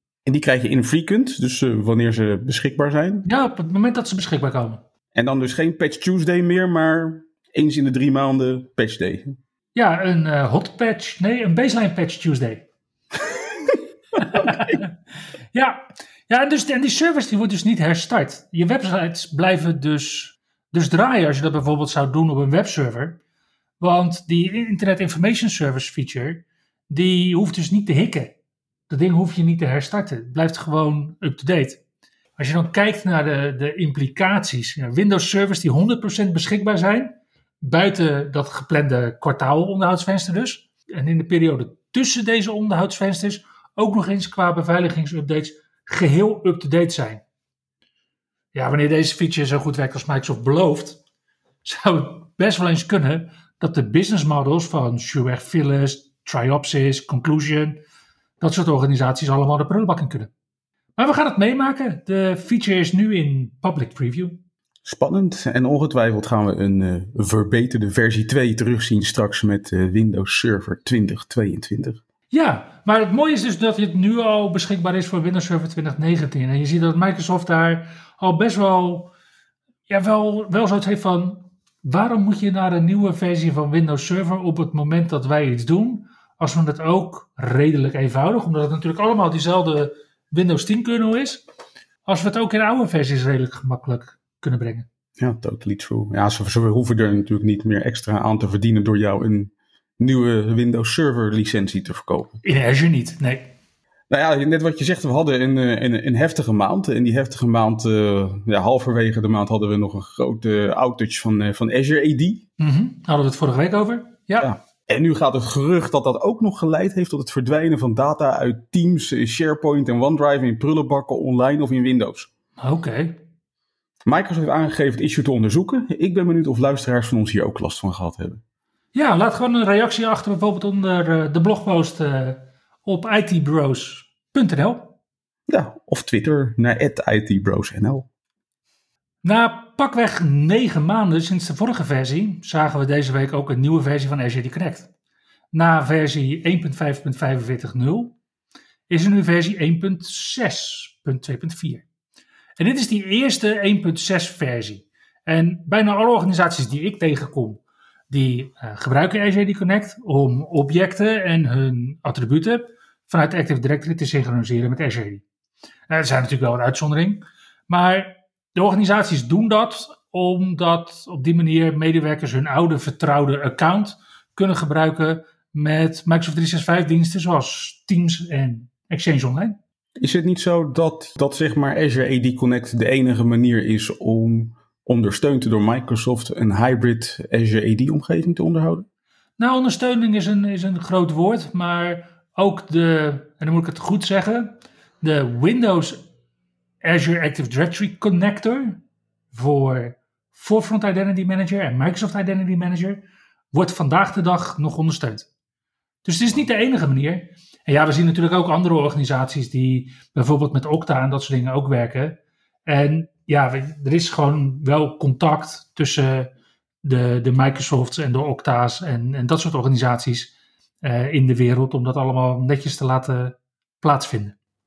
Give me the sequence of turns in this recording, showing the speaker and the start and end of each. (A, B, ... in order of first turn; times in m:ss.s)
0:00.2-0:03.3 A
0:03.2-0:04.8 B
0:05.1-0:09.4 A
0:09.7-0:12.6 B
0:13.3-0:13.8 A
0:14.2-0:14.9 B
0:14.3-0:14.8 A
0:15.5-0:23.2 B
0:23.8-0:28.4 B
0:28.9-0:31.8 B
0:32.4-0:47.2 B
0:48.5-0:51.0 B
0:51.6-0:57.8 B
0:58.4-1:00.3 B
1:01.0-1:04.4 B
1:04.8-1:12.0 A
1:12.3-1:19.1 B
1:19.9-1:31.4 B
1:32.0-1:34.9 B
1:35.2-1:42.4 A
1:42.4-1:43.5 B
1:44.1-1:52.4 A
1:52.6-1:54.5 B
1:54.4-2:02.3 A
2:02.6-2:03.2 B
2:04.0-2:08.4 A
2:08.9-2:14.9 B
2:15.5-2:18.1 A
2:19.2-2:24.9 B
2:25.5-2:28.2 B
2:28.9-2:31.8 B
2:32.6-2:45.2 B
2:45.9-2:59.6 B
3:00.0-3:08.8 A
3:09.4-3:16.0 B
3:16.8-3:25.3 B
3:26.0-3:36.3 B
3:36.8-3:44.4 B